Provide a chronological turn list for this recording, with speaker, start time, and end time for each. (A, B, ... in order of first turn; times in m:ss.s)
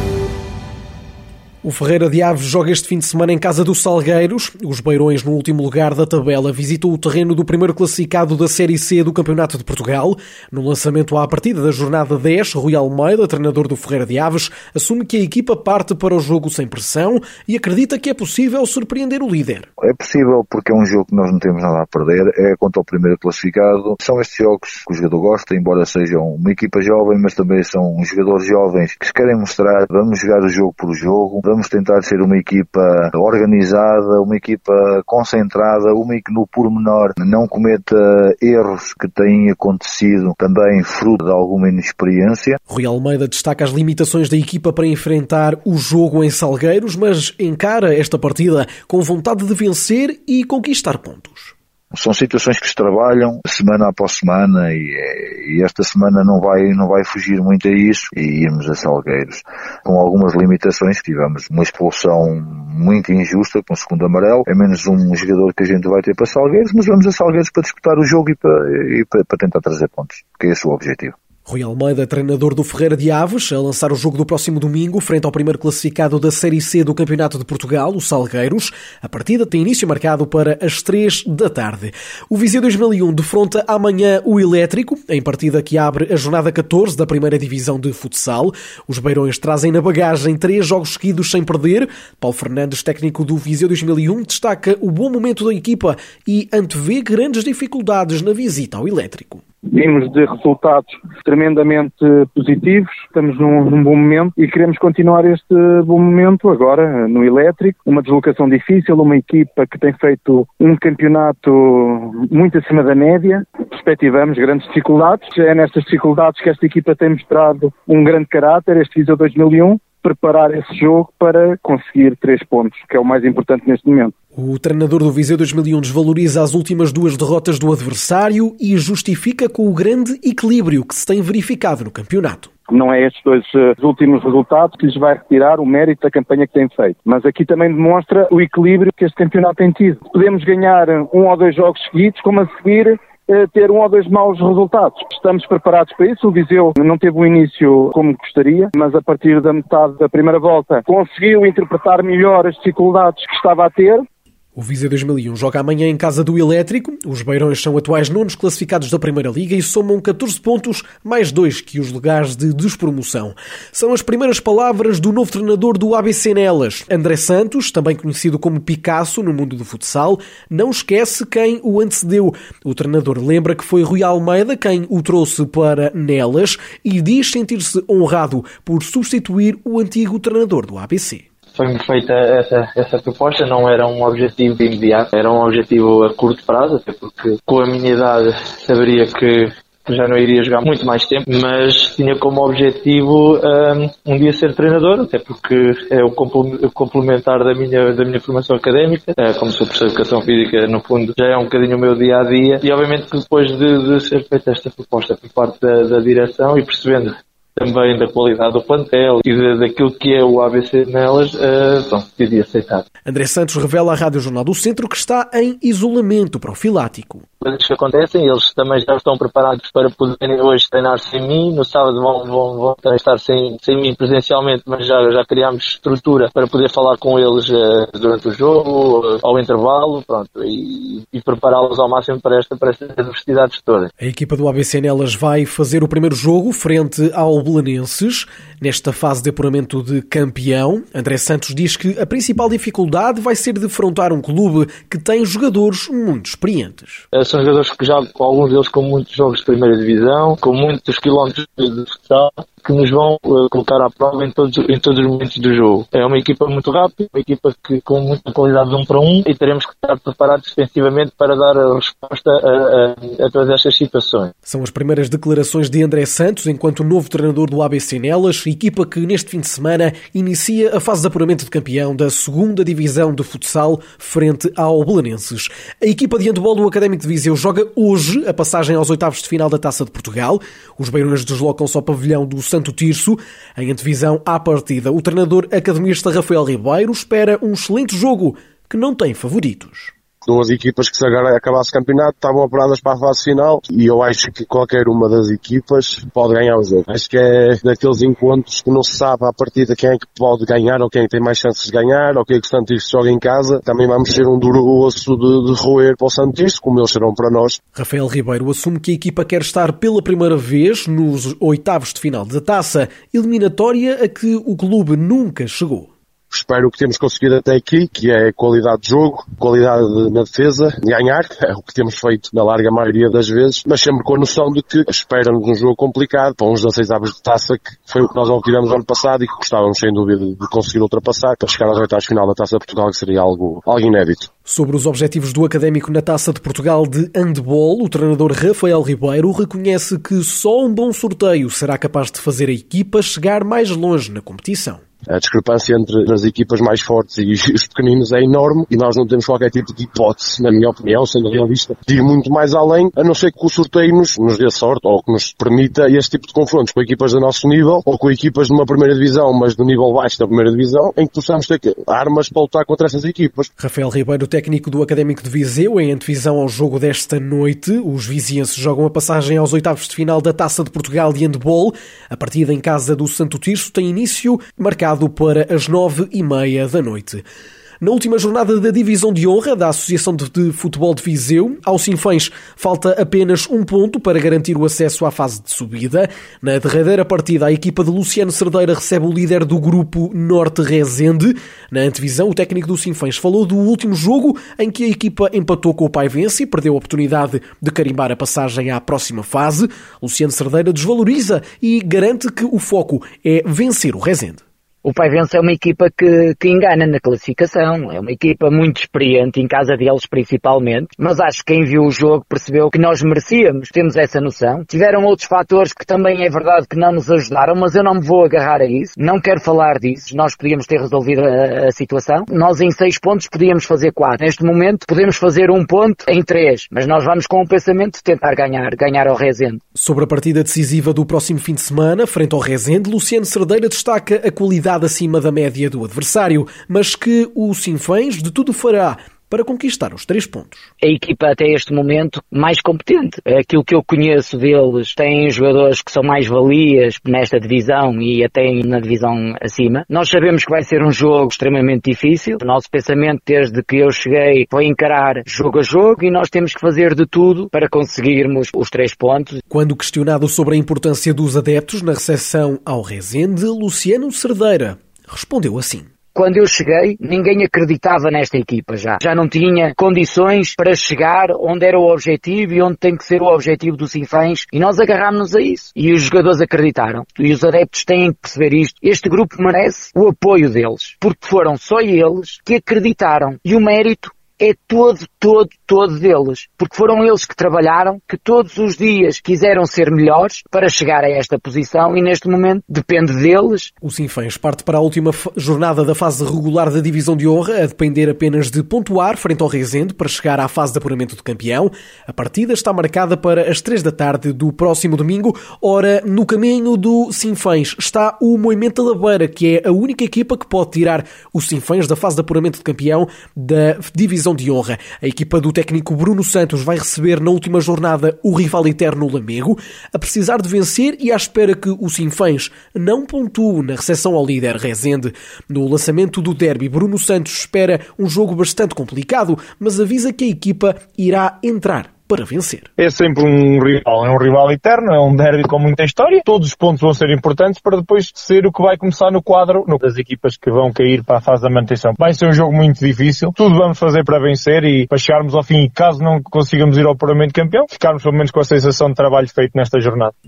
0:01.6-0:19.7 A
0:19.8-0:42.6 B
0:42.7-0:51.6 A
0:51.9-1:11.2 B
1:11.5-1:39.4 A
1:39.7-2:04.1 C
2:04.4-2:12.5 A
2:12.7-2:34.0 C
2:34.6-3:01.2 A
3:01.6-3:32.8 D
3:33.0-3:37.2 A
3:37.4-3:53.9 D
3:54.0-4:07.0 A
4:07.1-4:24.3 D
4:24.4-4:49.9 A
4:50.3-5:07.6 E
5:07.7-5:15.9 A
5:16.3-5:34.3 E
5:34.5-5:44.8 A
5:45.1-6:03.5 E
6:03.6-6:17.2 A
6:17.8-6:44.4 A
6:44.8-7:09.6 F
7:09.8-7:20.7 A
7:20.8-7:39.4 F
7:39.5-7:45.9 A
7:46.1-8:13.7 F
8:13.8-8:52.7 A
8:52.8-9:10.1 G